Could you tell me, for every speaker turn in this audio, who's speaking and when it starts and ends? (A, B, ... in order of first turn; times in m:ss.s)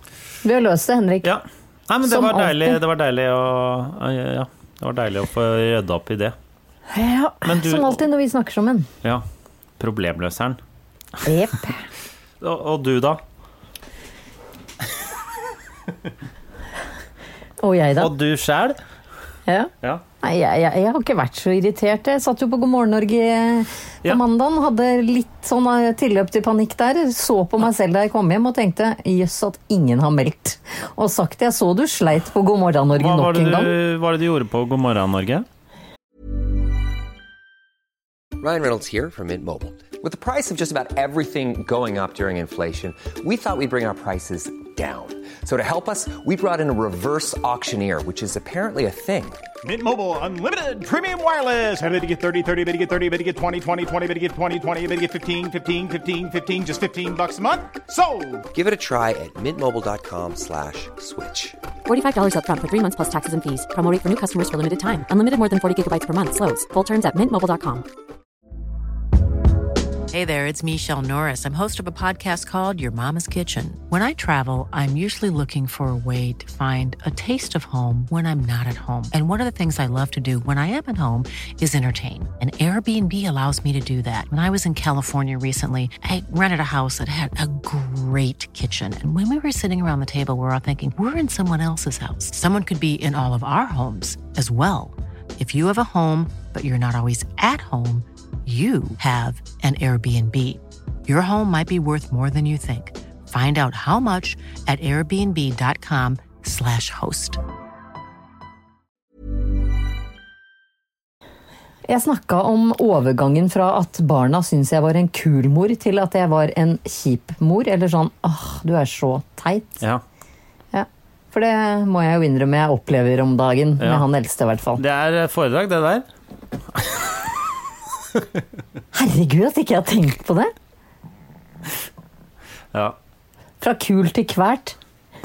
0:00.4-0:01.3 A
0:01.2-0:06.4 B
0:02.0-0:02.8 A
0:06.9-0:08.9 A
0:07.4-0:08.0 B
0:09.8-0:10.6 B
0:11.2-0:11.8 A
0:12.4-0:13.2 B
0:17.6-0:18.1 A
0:18.0-0:18.8 B
0:20.2-0:33.8 A
0:33.0-0:35.5 B
0:38.4-0:49.4 C
0:49.6-0:58.5 D
0:58.5-1:01.6 C
1:01.9-1:07.9 E
1:10.1-1:47.4 F
1:51.9-1:59.8 A
2:00.7-2:04.8 A
2:03.8-2:04.1 B
2:04.8-2:06.1 B
2:06.7-2:07.3 B
2:08.2-2:08.4 B
2:08.9-2:10.5 A
2:13.6-2:14.8 A